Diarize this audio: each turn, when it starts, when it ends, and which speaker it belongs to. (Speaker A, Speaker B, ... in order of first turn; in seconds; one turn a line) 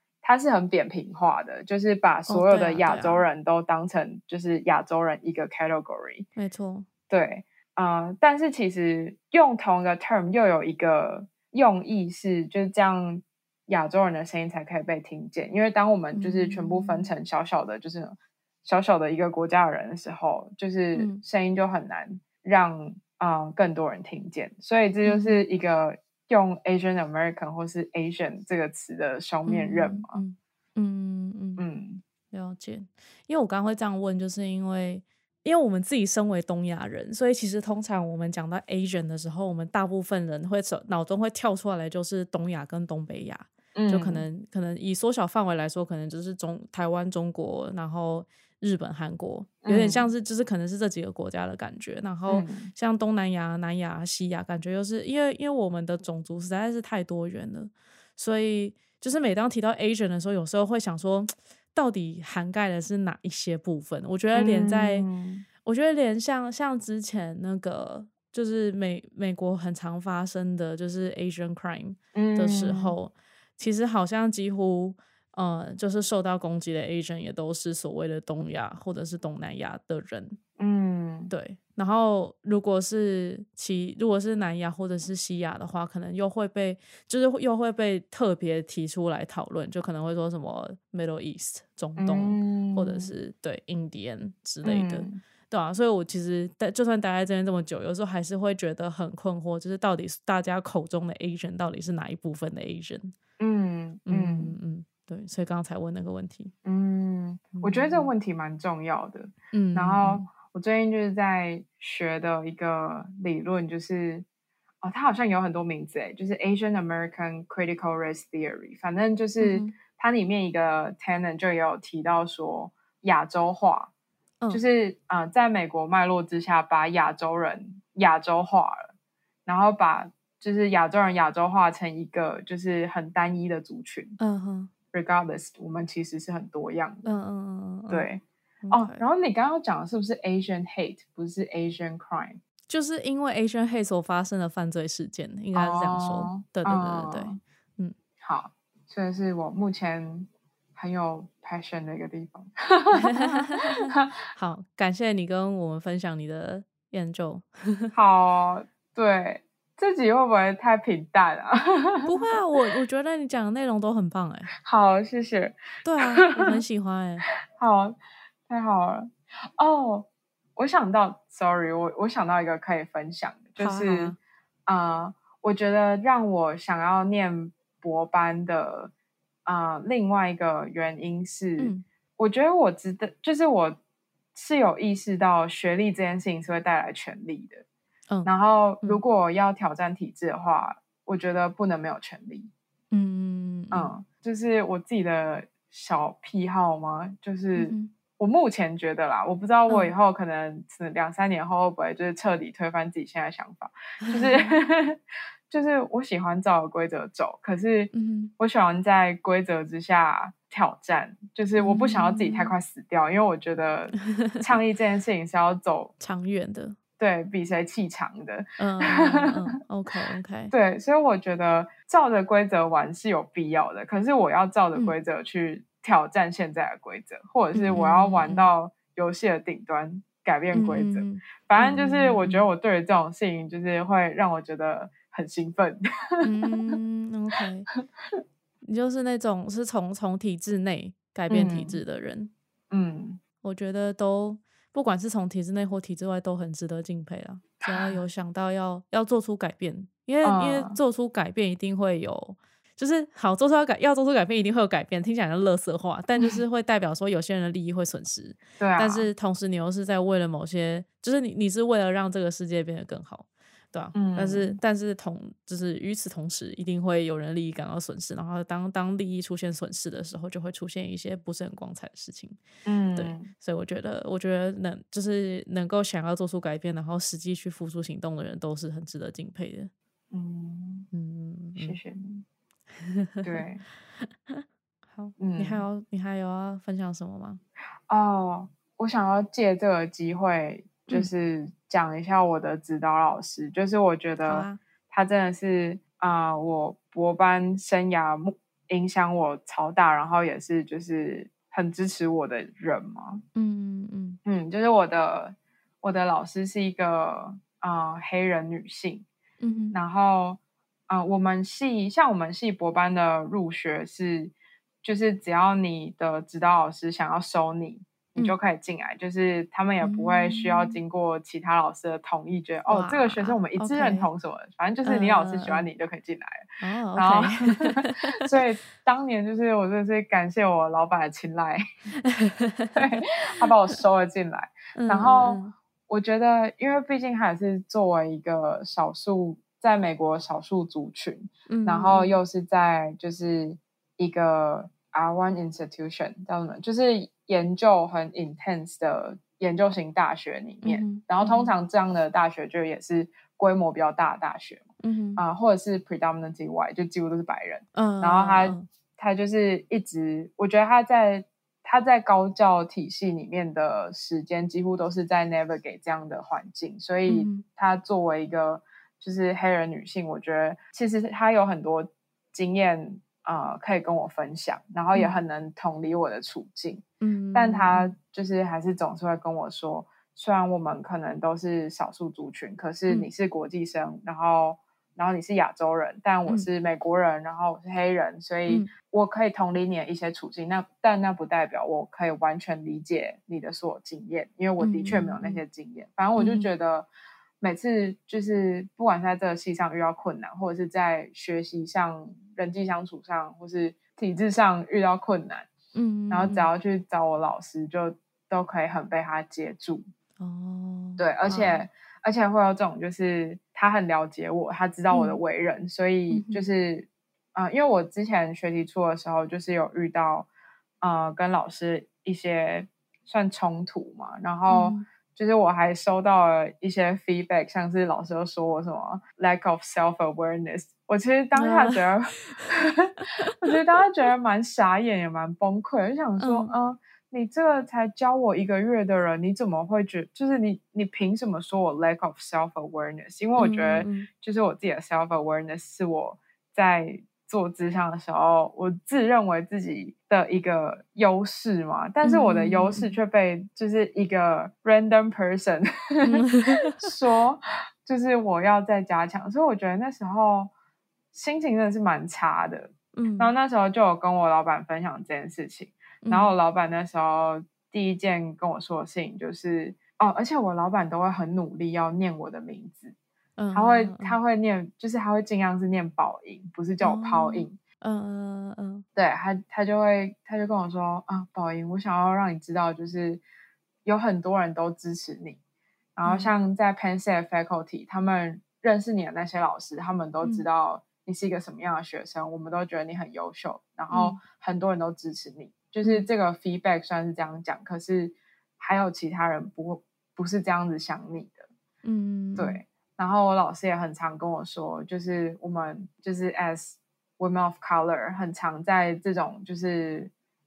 Speaker A: 0.2-6.3
Speaker B: 2.3-3.2
Speaker B: 6.4-6.9
Speaker A: 7.1-30.2
Speaker B: 16.1-17.1
Speaker B: 20.9-21.2
Speaker B: 25.0-25.4
Speaker B: 29.5-31.6
Speaker A: 31.6-32.0
Speaker B: 32.3-65.1
Speaker A: 43.7-44.3
Speaker A: 49.6-50.1
Speaker A: 52.3-52.7
Speaker A: 64.3-65.5
Speaker B: 65.6-80.4
Speaker A: 72.1-73.0
Speaker A: 80.6-81.3
Speaker B: 81.3-103.1
Speaker A: 92.0-93.1
Speaker A: 94.6-95.2
Speaker A: 103.4-104.5
Speaker B: 104.1-106.5
Speaker A: 106.6-114.2
Speaker B: 107.5-108.1
Speaker B: 109.5-110.3
Speaker A: 114.8-123.9
Speaker B: 119.4-119.7
Speaker A: 124.5-128.9
Speaker A: 129.4-134.2
Speaker B: 134.2-134.7
Speaker A: 134.9-137.1
Speaker B: 137.1-138.1
Speaker A: 137.9-142.4
Speaker B: 138.6-139.0
Speaker B: 142.7-147.9
Speaker A: 145.6-147.4
Speaker A: 148.2-154.1
Speaker B: 152.9-157.9
Speaker A: 157.9-162.3
Speaker B: 162.1-164.5
Speaker A: 164.6-166.6
Speaker B: 165.8-167.2
Speaker A: 167.5-168.0
Speaker A: 168.5-174.2
Speaker B: 173.6-174.2
Speaker A: 174.7-178.9
Speaker A: 179.4-183.8
Speaker B: 181.6-181.8
Speaker A: 184.3-187.6
Speaker A: 188.2-192.5
Speaker B: 192.9-193.9
Speaker A: 193.7-215.9
Speaker B: 197.6-197.9
Speaker B: 204.0-204.6
Speaker B: 207.9-208.3
Speaker B: 211.6-212.5
Speaker B: 214.1-214.4
Speaker B: 216.0-216.8
Speaker A: 217.0-219.3
Speaker B: 218.6-220.5
Speaker A: 220.5-236.8
Speaker B: 227.5-228.5
Speaker B: 230.5-232.5
Speaker B: 236.2-237.7
Speaker B: 238.6-242.3
Speaker A: 241.3-241.8
Speaker A: 242.7-243.2
Speaker B: 243.4-272.4
Speaker A: 247.6-248.0
Speaker A: 250.2-250.8
Speaker A: 258.6-259.1
Speaker A: 263.9-264.6
Speaker A: 272.6-273.3
Speaker B: 272.9-279.7
Speaker A: 280.1-280.9
Speaker B: 280.9-281.8
Speaker A: 281.6-282.2
Speaker B: 282.8-283.4
Speaker A: 283.2-283.6
Speaker B: 284.1-287.4
Speaker A: 285.2-285.6
Speaker A: 287.9-303.2
Speaker B: 294.2-294.6
Speaker B: 303.3-304.2
Speaker A: 304.3-309.1
Speaker B: 309.4-309.8
Speaker A: 309.7-331.6
Speaker B: 319.8-320.8
Speaker B: 322.7-324.1
Speaker B: 324.9-325.7
Speaker B: 326.6-328.1
Speaker B: 332.0-332.8
Speaker A: 332.7-354.6
Speaker B: 334.8-335.5
Speaker B: 341.5-342.1
Speaker B: 350.6-351.5
Speaker B: 354.8-355.2
Speaker A: 355.2-396.9
Speaker B: 357.7-358.7
Speaker B: 367.1-367.4
Speaker B: 377.0-377.9
Speaker B: 394.6-395.4
Speaker B: 396.2-396.5
Speaker A: 397.4-405.5
Speaker B: 405.7-406.5
Speaker A: 406.1-409.8
Speaker B: 410.2-411.6
Speaker A: 411.0-420.3
Speaker B: 414.9-415.2
Speaker B: 416.1-416.4
Speaker A: 420.8-460.5
Speaker B: 424.5-424.8
Speaker B: 431.3-432.4
Speaker B: 433.3-433.6
Speaker B: 436.2-436.5
Speaker B: 443.4-444.1
Speaker B: 452.0-452.9
Speaker B: 456.1-456.9
Speaker A: 461.1-472.9
Speaker B: 462.9-463.3
Speaker B: 466.0-466.3
Speaker B: 473.4-474.2
Speaker A: 473.5-477.6
Speaker B: 476.8-478.9
Speaker A: 478.9-483.2
Speaker A: 483.8-485.4
Speaker A: 485.9-501.5
Speaker B: 486.1-486.3
Speaker B: 493.9-494.2
Speaker B: 495.8-496.1
Speaker B: 501.8-502.6
Speaker A: 502.4-510.1